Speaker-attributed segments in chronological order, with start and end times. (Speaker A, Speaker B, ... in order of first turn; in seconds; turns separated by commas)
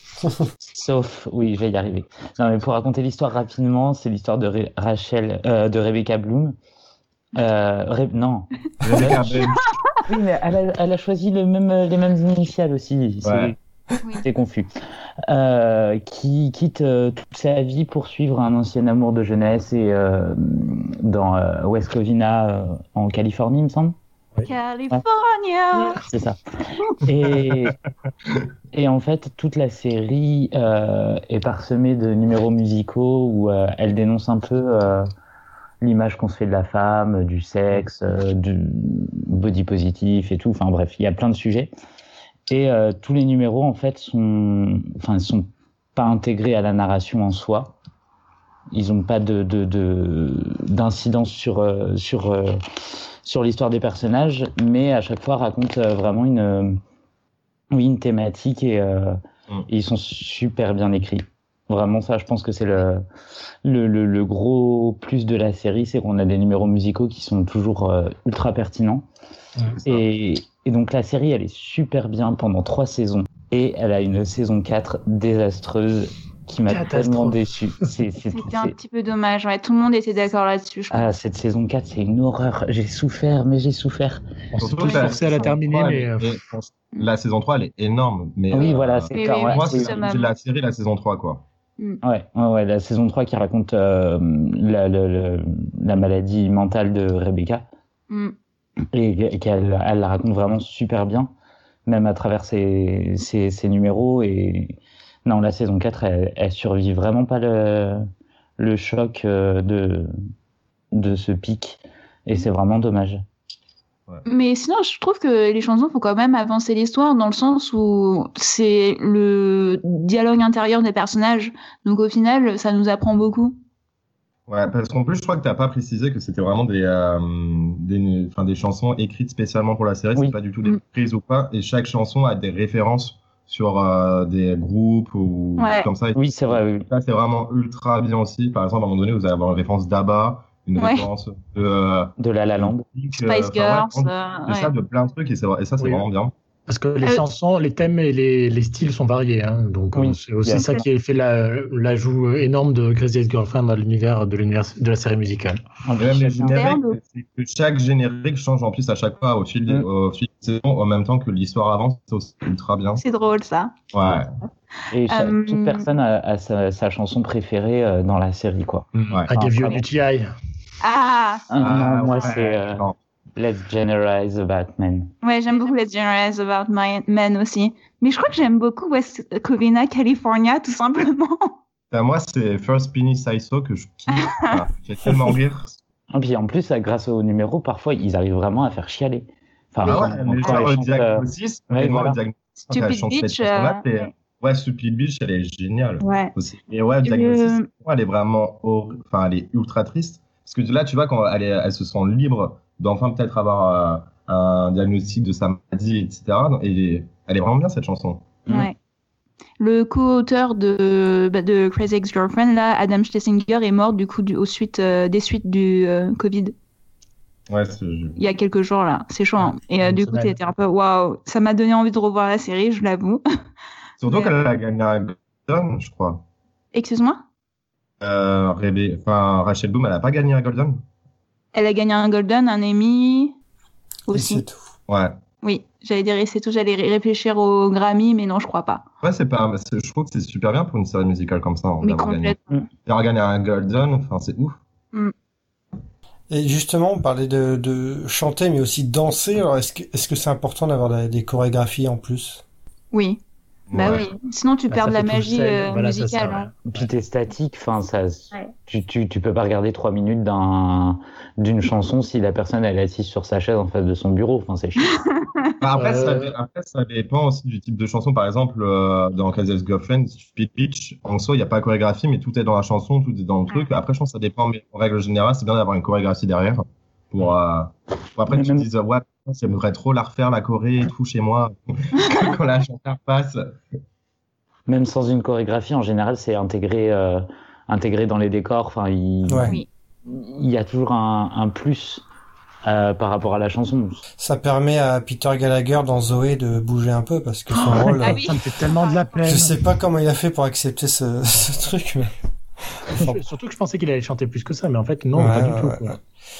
Speaker A: 0.7-6.6, Speaker A: 7.3-9.5, Speaker B: 8.8-9.6, Speaker A: 10.1-13.6, Speaker B: 13.2-13.5, Speaker A: 14.2-14.7, Speaker A: 15.3-23.9, Speaker C: 24.4-26.0, Speaker D: 25.8-26.0, Speaker A: 26.1-26.4, Speaker A: 26.9-27.8, Speaker A: 28.7-35.1, Speaker A: 35.8-41.7, Speaker A: 42.5-47.7, Speaker A: 48.7-52.6, Speaker A: 53.2-56.8, Speaker A: 57.7-63.0, Speaker A: 63.6-69.1, Speaker A: 69.9-78.7, Speaker D: 76.7-77.4, Speaker C: 78.3-81.1, Speaker A: 80.9-84.2, Speaker D: 84.5-86.4, Speaker B: 84.6-91.4, Speaker C: 84.8-85.5, Speaker A: 88.5-90.0, Speaker C: 88.6-90.3, Speaker A: 92.0-97.6, Speaker A: 98.9-101.3, Speaker A: 101.9-108.1, Speaker A: 108.6-110.1, Speaker A: 110.9-113.2, Speaker C: 114.3-123.6, Speaker B: 124.5-142.1, Speaker C: 135.6-135.9, Speaker A: 136.1-136.9, Speaker C: 140.8-141.1, Speaker A: 142.2-142.9, Speaker B: 142.6-146.3, Speaker C: 143.2-144.7, Speaker D: 145.8-146.1, Speaker D: 146.7-155.6, Speaker A: 149.9-150.8, Speaker C: 150.6-150.8, Speaker A: 155.8-156.6, Speaker B: 156.0-163.0, Speaker C: 156.4-157.0, Speaker C: 163.0-163.7, Speaker B: 163.9-164.3, Speaker A: 164.9-169.8, Speaker C: 165.1-165.8, Speaker D: 168.9-170.3, Speaker C: 170.8-171.5, Speaker A: 171.5-175.1, Speaker B: 171.6-173.0, Speaker C: 172.1-172.3, Speaker C: 175.2-181.5, Speaker B: 181.9-185.8, Speaker C: 184.2-184.5, Speaker A: 186.1-192.2, Speaker C: 189.8-190.7, Speaker B: 189.8-208.3, Speaker C: 192.7-194.1, Speaker C: 196.0-196.3, Speaker C: 197.0-197.7, Speaker C: 208.5-208.8, Speaker C: 209.6-216.6, Speaker B: 217.5-218.2, Speaker C: 218.2-223.2, Speaker D: 219.4-220.4, Speaker B: 224.0-226.2, Speaker C: 224.1-224.3, Speaker C: 226.7-227.2, Speaker B: 228.0-230.8, Speaker C: 231.5-233.3, Speaker C: 234.1-234.4, Speaker E: 234.1-234.7, Speaker B: 234.9-235.2, Speaker C: 235.4-238.8, Speaker B: 239.0-244.6, Speaker C: 241.8-242.6, Speaker E: 246.3-252.4, Speaker C: 252.9-253.2, Speaker B: 253.7-254.1, Speaker C: 253.7-256.5, Speaker D: 254.7-256.9, Speaker A: 256.7-265.0, Speaker C: 264.9-265.5, Speaker B: 265.6-283.4, Speaker D: 265.8-266.4, Speaker A: 278.3-278.6, Speaker A: 284.7-292.0, Speaker E: 289.3-289.6, Speaker A: 292.6-294.0, Speaker E: 294.2-298.3, Speaker C: 297.5-299.2, Speaker D: 297.8-299.5, Speaker E: 299.2-302.1, Speaker E: 302.8-303.1, Speaker D: 302.9-305.9, Speaker E: 305.1-306.0